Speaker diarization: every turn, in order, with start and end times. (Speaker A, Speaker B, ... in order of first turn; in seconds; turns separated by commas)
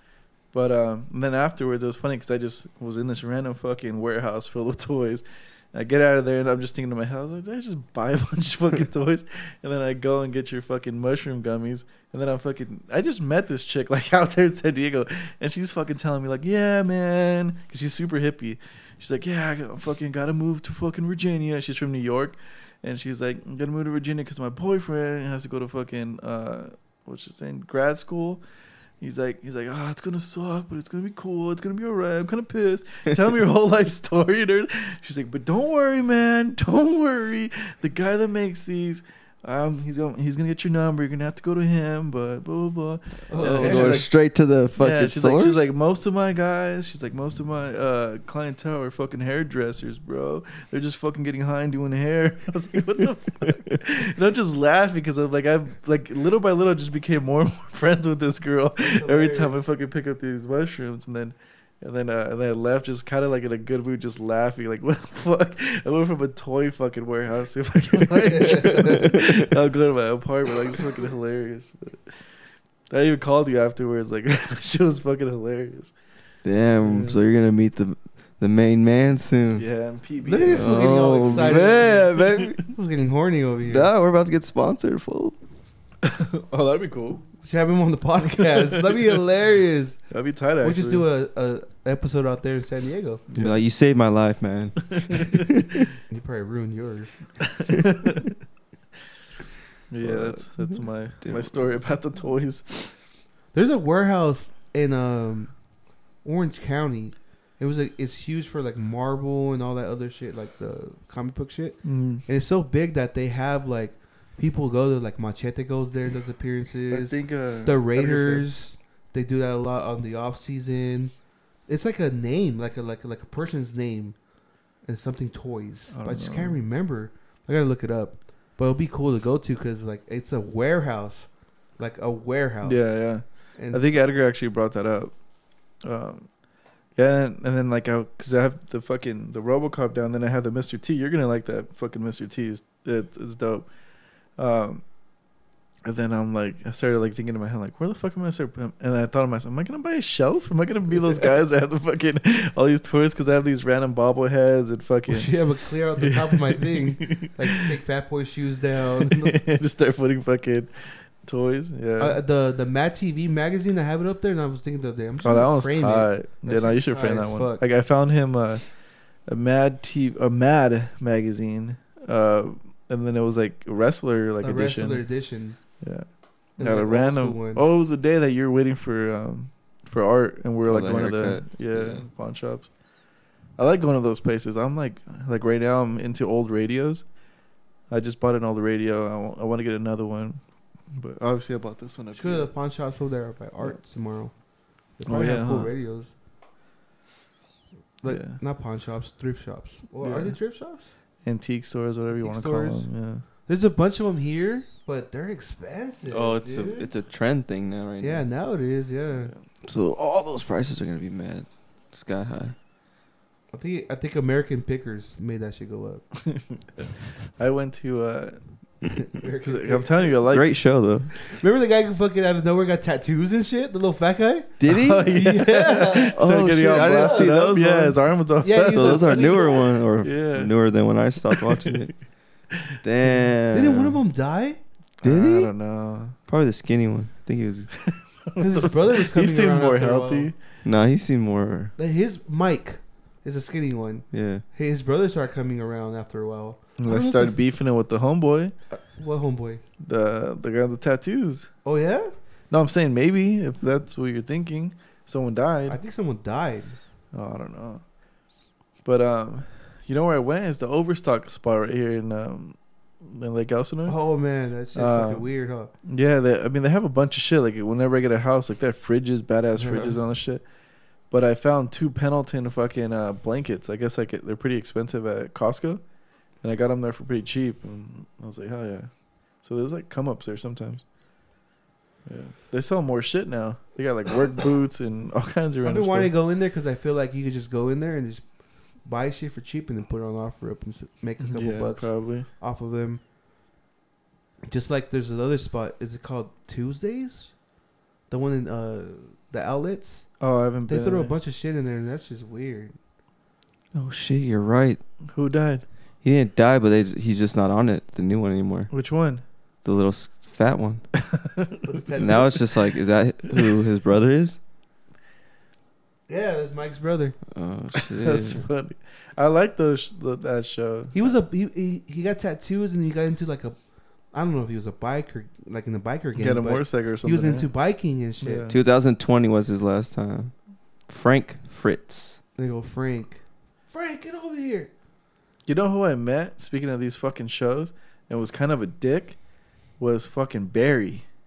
Speaker A: 0.5-28.4, Speaker A: 29.0-44.1, Speaker B: 43.3-44.0, Speaker C: 43.4-45.7, Speaker A: 44.8-72.2, Speaker B: 58.8-59.5, Speaker B: 68.3-69.0, Speaker C: 68.7-69.5, Speaker A: 72.9-75.9, Speaker C: 76.4-79.6, Speaker A: 76.8-77.2, Speaker A: 79.5-82.6, Speaker B: 80.2-83.9, Speaker C: 80.5-82.6, Speaker C: 83.6-85.3, Speaker A: 86.0-87.2, Speaker B: 87.4-90.0, Speaker A: 88.5-89.0, Speaker A: 90.1-91.0, Speaker B: 90.6-93.3, Speaker A: 93.3-93.6, Speaker C: 93.3-95.9, Speaker A: 94.9-95.5, Speaker B: 96.1-97.5, Speaker A: 97.5-98.3, Speaker A: 99.9-102.9, Speaker C: 100.0-101.6, Speaker B: 103.5-105.5, Speaker B: 106.2-121.1, Speaker A: 111.8-112.2, Speaker A: 116.9-118.5, Speaker B: 121.7-124.2, Speaker B: 124.8-133.9, Speaker A: 125.9-126.6, Speaker A: 132.6-135.1, Speaker A: 135.8-136.3, Speaker A: 136.9-143.7, Speaker A: 144.3-144.8, Speaker A: 145.8-155.4, Speaker B: 155.1-159.4, Speaker A: 156.0-157.7, Speaker A: 159.0-162.2, Speaker B: 162.0-167.6, Speaker A: 165.2-175.1, Speaker B: 174.4-175.8, Speaker A: 175.8-182.7, Speaker B: 176.6-177.6, Speaker C: 180.6-182.0, Speaker A: 183.6-187.1, Speaker A: 187.9-192.5, Speaker B: 192.1-194.3, Speaker B: 195.0-196.1, Speaker A: 195.1-195.7, Speaker B: 198.0-200.9, Speaker A: 198.1-198.4, Speaker A: 200.0-200.4, Speaker A: 201.2-203.2, Speaker B: 202.1-202.9, Speaker B: 203.4-206.9, Speaker C: 206.1-208.3, Speaker B: 208.0-209.3, Speaker C: 209.6-212.6, Speaker B: 213.5-216.0, Speaker A: 216.2-218.4, Speaker B: 218.9-220.2, Speaker A: 219.4-220.5, Speaker C: 220.3-221.1, Speaker B: 221.2-224.6, Speaker C: 224.6-228.0, Speaker A: 224.7-229.5, Speaker B: 225.1-227.4, Speaker B: 228.4-229.7, Speaker C: 228.7-231.9, Speaker A: 230.0-230.5, Speaker A: 231.3-231.9, Speaker C: 232.8-234.0, Speaker B: 233.5-234.6, Speaker A: 235.0-236.2, Speaker C: 235.0-235.5, Speaker C: 236.3-237.7, Speaker A: 237.8-240.3, Speaker B: 238.4-240.3, Speaker C: 240.6-241.7, Speaker B: 241.8-247.4, Speaker C: 244.1-244.4, Speaker A: 246.8-248.5, Speaker B: 248.7-249.6, Speaker A: 249.8-251.5, Speaker B: 251.6-252.1, Speaker A: 252.5-255.8, Speaker B: 255.7-256.8, Speaker A: 257.1-257.8, Speaker A: 258.8-264.0, Speaker B: 263.9-265.7, Speaker A: 264.7-265.3, Speaker A: 265.9-270.4, Speaker A: 271.1-275.8, Speaker A: 276.4-280.8, Speaker A: 282.1-286.1, Speaker B: 285.6-288.3, Speaker B: 288.8-293.0, Speaker A: 291.2-292.3, Speaker B: 294.5-297.3, Speaker B: 298.1-300.1, Speaker A: 300.2-301.1, Speaker B: 300.7-302.7, Speaker C: 303.7-304.8, Speaker A: 305.1-305.6, Speaker C: 306.0-308.7, Speaker A: 308.7-309.2, Speaker C: 309.6-310.8, Speaker A: 311.0-311.7, Speaker B: 311.6-312.6, Speaker C: 311.9-314.4, Speaker B: 316.1-317.2, Speaker C: 317.3-318.4, Speaker A: 317.8-321.1, Speaker B: 320.9-323.6, Speaker B: 324.1-328.5, Speaker A: 326.1-327.5, Speaker A: 328.2-328.6, Speaker C: 328.5-330.3, Speaker C: 330.9-332.2, Speaker B: 332.4-334.7, Speaker A: 335.5-339.2, Speaker A: 339.8-341.1